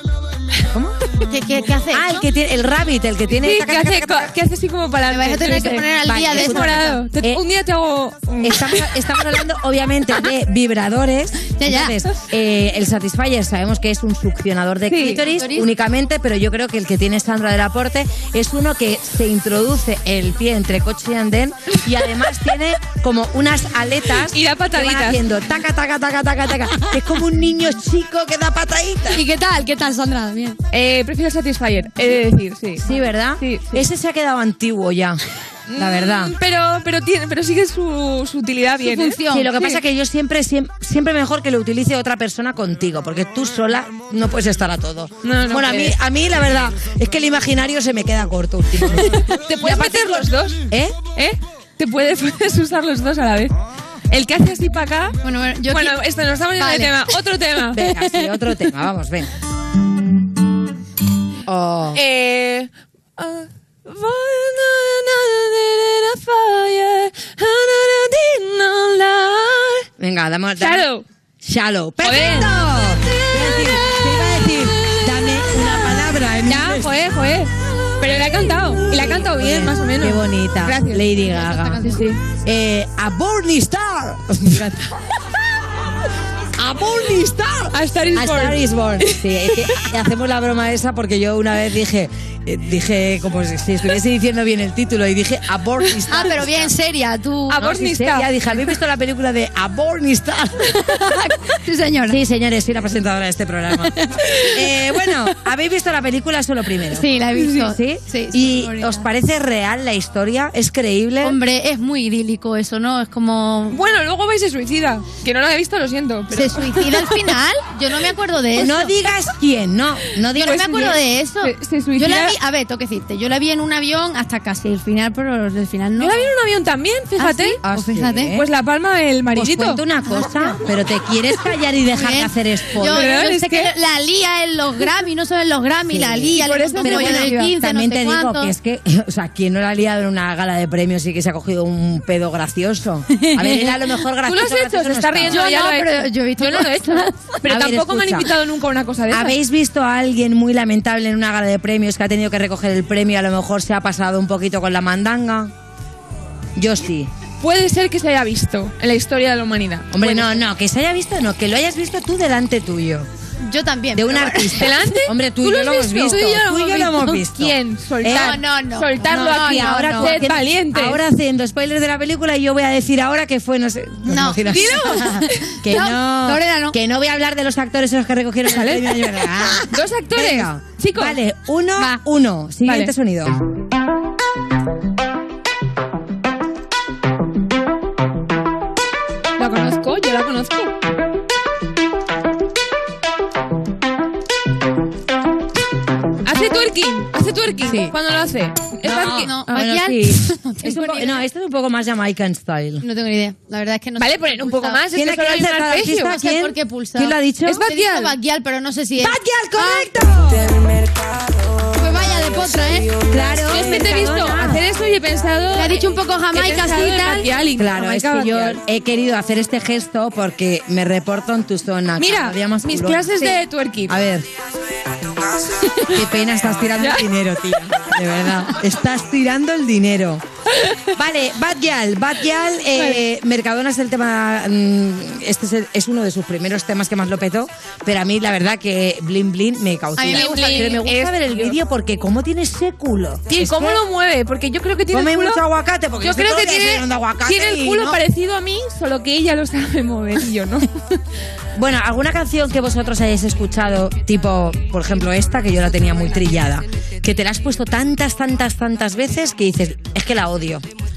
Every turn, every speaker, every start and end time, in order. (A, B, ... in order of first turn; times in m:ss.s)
0:01.2-0:02.2 A
0:01.9-0:04.3 B
0:03.4-0:09.2 C
0:05.1-0:07.0 A
0:05.4-0:07.4 B
0:08.4-0:29.2 B
0:11.6-0:12.0 A
0:14.9-0:15.3 C
0:15.3-0:15.7 A
0:24.3-0:25.2 C
0:29.1-0:30.6 A
0:30.7-0:33.8 C
0:32.8-0:35.2 B
0:35.7-0:39.7 C
0:35.8-0:36.3 B
0:38.8-0:39.7 A
0:39.3-0:51.0 B
0:45.2-0:46.0 C
0:49.0-0:50.6 C
0:51.2-0:53.5 C
0:54.1-0:55.2 C
0:55.2-0:56.0 A
0:55.7-0:57.8 C
0:56.6-0:57.1 A
0:57.7-0:59.3 B
0:57.8-0:58.3 A
1:01.5-1:02.0 B
1:01.9-1:09.9 C
1:10.0-1:10.9 B
1:10.6-1:11.0 C
1:11.4-1:16.9 B
1:12.0-1:12.5 C
1:16.5-1:21.1 C
1:18.9-1:21.9 B
1:21.2-1:22.0 A
1:21.8-1:22.2 C
1:22.4-1:24.9 B
1:26.6-1:36.7 B
1:27.7-1:29.5 C
1:36.1-1:37.6 A
1:37.5-1:38.3 C
1:37.6-1:40.8 B
1:40.9-1:42.2 A
1:42.1-1:43.9 B
1:44.5-1:51.4 B
1:46.9-1:49.1 A
1:51.2-1:53.8 A
1:53.7-1:57.2 C
1:56.3-1:58.9 A
1:58.6-2:01.0 B
2:00.4-2:02.4 C
2:00.4-2:06.3 A
2:06.0-2:07.6 C
2:07.2-2:08.4 A
2:07.6-2:08.4 B
2:08.3-2:09.8 C
2:09.3-2:13.1 B
2:10.1-2:10.6 A
2:11.9-2:18.5 A
2:12.9-2:13.7 C
2:15.9-2:25.5 B
2:16.4-2:17.5 C
2:23.2-2:23.8 A
2:24.2-2:29.4 C
2:25.3-2:27.3 A
2:27.4-2:28.3 B
2:29.1-2:35.5 B
2:36.6-2:37.1 B
2:37.4-2:40.4 C
2:39.9-2:43.1 B
2:43.4-2:44.7 A
2:43.9-2:48.4 B
2:44.6-2:51.0 C
2:48.1-2:50.3 A
2:49.0-3:03.4 B
2:54.1-2:56.8 A
2:54.5-2:55.4 C
2:58.5-2:59.2 C
2:59.7-3:01.2 C
3:02.6-3:02.9 C
3:09.4-3:10.7 C
3:16.2-3:19.7 C
3:18.8-3:22.8 B
3:18.9-3:21.2 A
3:22.8-3:24.8 A
3:24.0-3:26.2 C
3:24.9-3:27.7 B
3:26.0-3:29.9 A
3:27.5-3:28.1 C
3:29.0-3:30.5 B
3:31.7-3:33.0 A
3:33.1-3:34.6 B
3:33.5-3:38.6 C
3:35.5-3:37.3 A
3:37.6-3:44.3 B
3:42.0-3:44.0 C
3:45.9-3:50.2 B
3:46.8-3:47.1 C
3:51.0-4:03.8 B
4:00.0-4:00.8 A
4:00.1-4:01.6 C
4:03.3-4:05.4 C
4:04.9-4:08.0 B
4:06.0-4:10.7 C
4:11.6-4:20.6 B